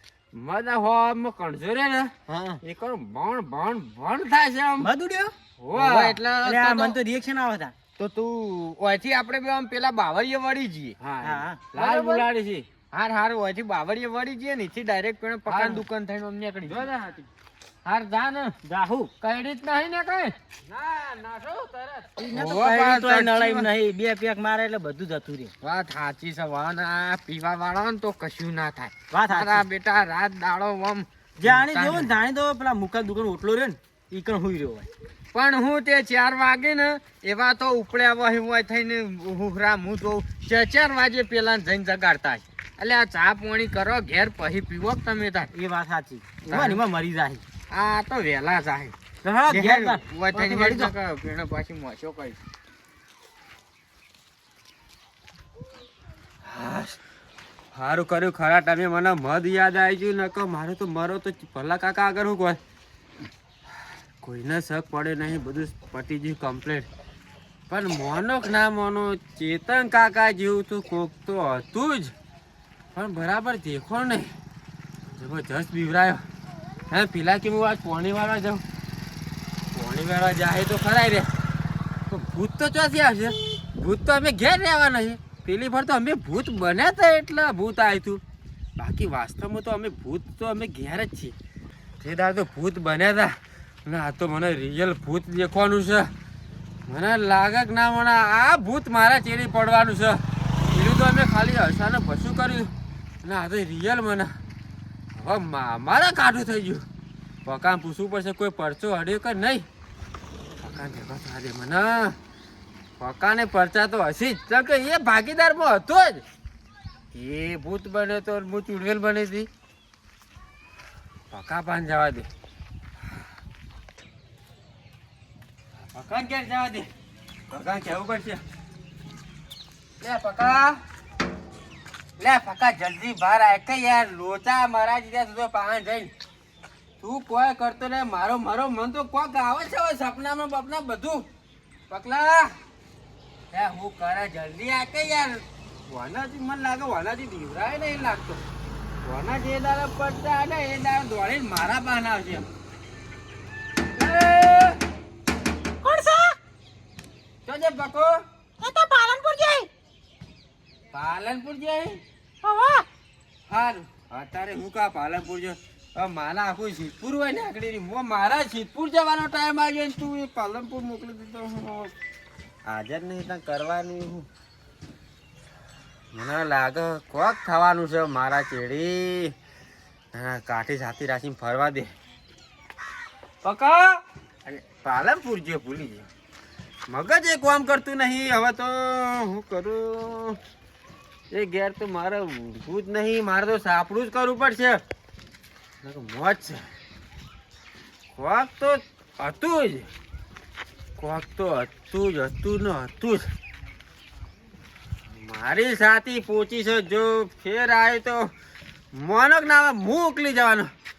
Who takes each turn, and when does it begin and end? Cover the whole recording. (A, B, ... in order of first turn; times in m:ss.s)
0:00.3-0:02.1 A
0:02.3-0:02.6 B
0:02.6-0:04.9 A
0:04.8-0:05.3 C
0:05.6-0:06.2 A
0:05.8-0:07.0 B
0:06.4-0:07.7 C
0:08.0-0:11.0 B
0:11.0-0:12.7 A
0:11.2-0:11.6 C
0:11.8-0:12.3 B
0:12.9-0:16.9 B
0:15.5-0:15.8 A
0:16.6-0:17.3 A
0:17.8-0:18.5 B
0:18.6-0:19.1 C
0:19.2-0:20.3 B
0:20.7-0:23.7 A
0:22.2-0:25.5 C
0:25.6-0:32.1 B
0:29.1-0:29.6 C
0:31.4-0:34.9 C
0:35.3-0:45.5 B
0:45.5-0:47.4 C
0:46.5-0:46.8 B
0:47.7-0:49.0 B
0:49.2-0:50.9 C
0:49.5-0:52.4 B
0:56.4-0:57.0 A
0:57.7-1:02.6 A
1:04.2-1:06.9 A
1:07.7-1:12.1 A
1:13.0-1:14.3 A
1:15.2-1:16.2 A
1:16.9-1:18.6 A
1:19.7-1:21.3 A
1:22.1-1:28.2 A
1:28.8-1:31.4 A
1:32.0-1:33.3 A
1:33.9-1:36.1 A
1:36.9-1:42.7 A
1:43.2-1:44.3 A
1:45.2-1:46.8 A
1:47.5-1:49.7 A
1:50.6-1:52.2 A
1:53.0-1:56.2 A
1:57.1-1:59.5 A
2:01.3-2:02.3 A
2:05.9-2:06.9 A
2:07.5-2:08.4 A
2:10.0-2:10.8 A
2:12.2-2:16.1 A
2:17.0-2:21.2 A
2:21.9-2:22.5 A
2:23.5-2:28.4 A
2:29.0-2:32.5 A
2:34.0-2:34.8 A
2:35.8-2:36.4 C
2:37.5-2:38.2 A
2:38.6-2:39.7 C
2:40.9-2:42.0 A
2:42.4-2:42.8 C
2:43.5-2:51.9 A
2:52.7-2:54.3 A
2:56.1-2:59.4 A
3:00.1-3:01.9 A
3:03.4-3:06.1 A
3:06.9-3:10.4 A
3:11.3-3:14.8 A
3:15.8-3:16.7 A
3:18.1-3:19.9 A
3:21.0-3:23.2 A
3:25.1-3:28.3 A
3:28.9-3:30.7 A